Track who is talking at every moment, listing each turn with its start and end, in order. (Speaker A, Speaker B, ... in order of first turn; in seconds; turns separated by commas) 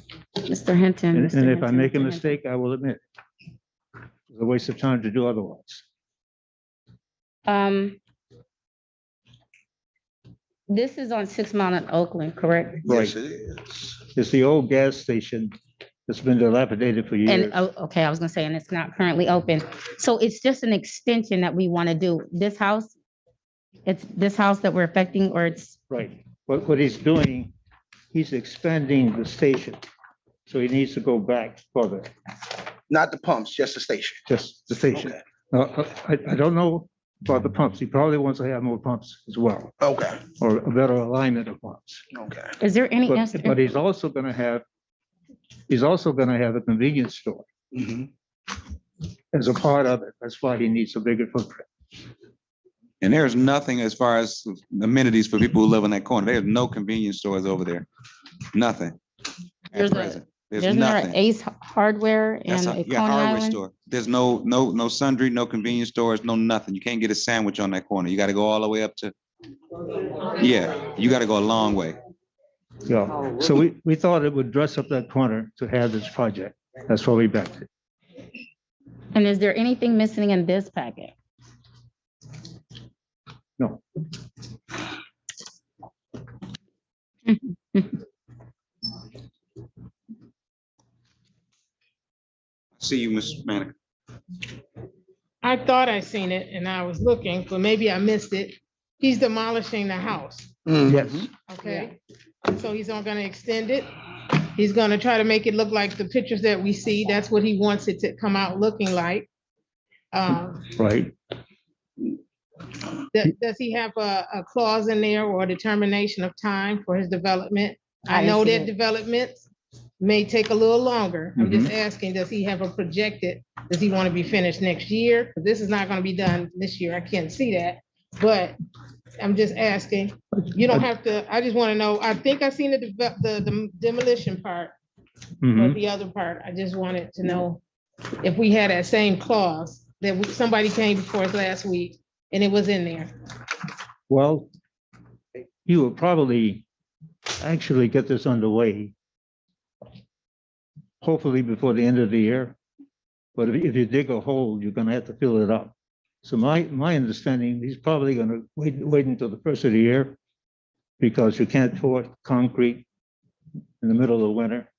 Speaker A: 0.4-2.3, Speaker B: 1.1-3.0, Speaker B: 4.3-5.8, Speaker A: 7.5-8.0, Speaker A: 10.7-12.8, Speaker C: 12.8-13.7, Speaker B: 12.8-13.1, Speaker B: 13.9-15.5, Speaker B: 16.1-17.6, Speaker A: 17.2-22.9, Speaker A: 23.9-25.8, Speaker B: 25.9-27.5, Speaker B: 28.1-29.8, Speaker B: 30.5-32.1, Speaker C: 32.9-34.2, Speaker B: 34.3-39.7, Speaker C: 34.9-35.2, Speaker C: 39.8-40.2, Speaker B: 40.3-42.0, Speaker C: 42.1-42.5, Speaker A: 42.6-43.6, Speaker B: 43.0-44.6, Speaker B: 45.7-47.4, Speaker C: 47.7-48.1, Speaker B: 49.3-51.7, Speaker D: 53.0-57.9, Speaker D: 58.5-59.0, Speaker D: 59.7-61.2, Speaker A: 59.7-63.6, Speaker D: 62.5-69.1, Speaker D: 70.3-72.0, Speaker B: 72.8-77.7, Speaker A: 79.1-81.1, Speaker A: 87.2-87.9, Speaker D: 92.8-93.7, Speaker E: 95.4-100.6, Speaker C: 100.7-101.3, Speaker B: 100.9-101.3, Speaker E: 101.5-103.9, Speaker E: 104.4-109.3, Speaker E: 110.1-110.7, Speaker B: 110.8-111.1, Speaker E: 113.1-119.5, Speaker A: 118.1-118.7, Speaker E: 120.0-128.6, Speaker B: 121.4-121.7, Speaker E: 129.2-134.7, Speaker B: 135.4-135.8, Speaker E: 135.6-137.6, Speaker E: 138.2-143.1, Speaker B: 144.1-144.5, Speaker B: 145.7-146.6, Speaker B: 147.4-148.9, Speaker B: 151.0-152.6, Speaker B: 153.3-160.2, Speaker B: 161.0-162.8, Speaker B: 163.8-164.7